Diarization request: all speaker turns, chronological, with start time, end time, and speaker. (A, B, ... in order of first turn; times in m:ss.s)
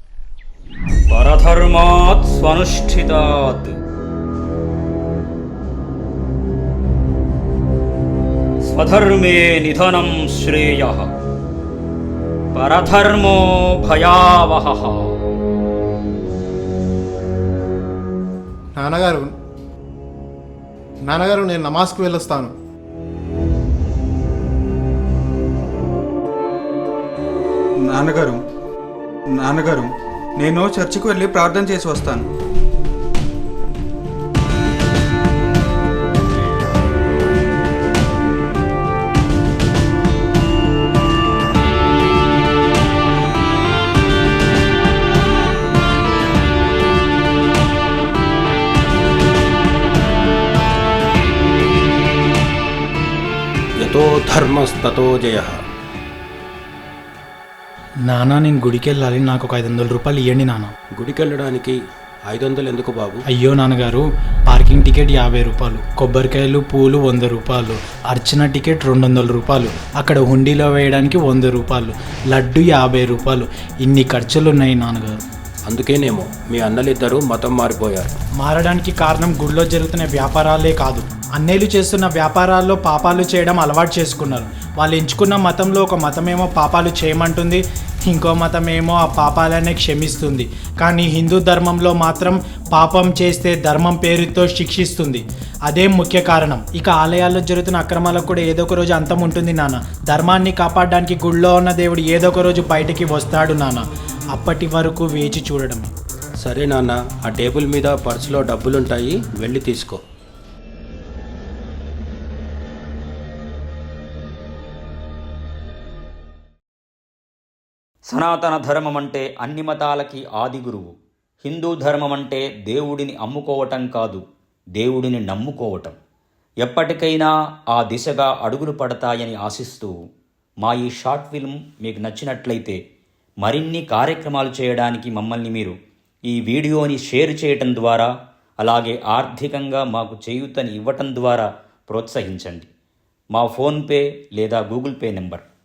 0:01.1-0:03.8 A
0:08.6-0:11.1 A
0:12.5-0:15.2 A
0:18.8-0:19.3 B
0:21.1-0:22.5 B
0:27.8-0:28.4 C
0:29.3-0:32.3 C
0:53.8-0:55.6 D
0:58.1-1:00.7 E
1:01.0-1:01.8 D
1:02.3-1:03.2 D
1:03.3-1:15.1 E
1:15.7-1:18.1 D
1:18.4-1:45.9 E
1:46.4-1:50.0 D
1:58.1-2:04.2 A
2:04.8-2:06.0 A
2:06.6-2:10.0 A
2:10.6-2:12.8 A
2:13.4-2:15.7 A
2:16.3-2:22.7 A
2:23.3-2:25.4 A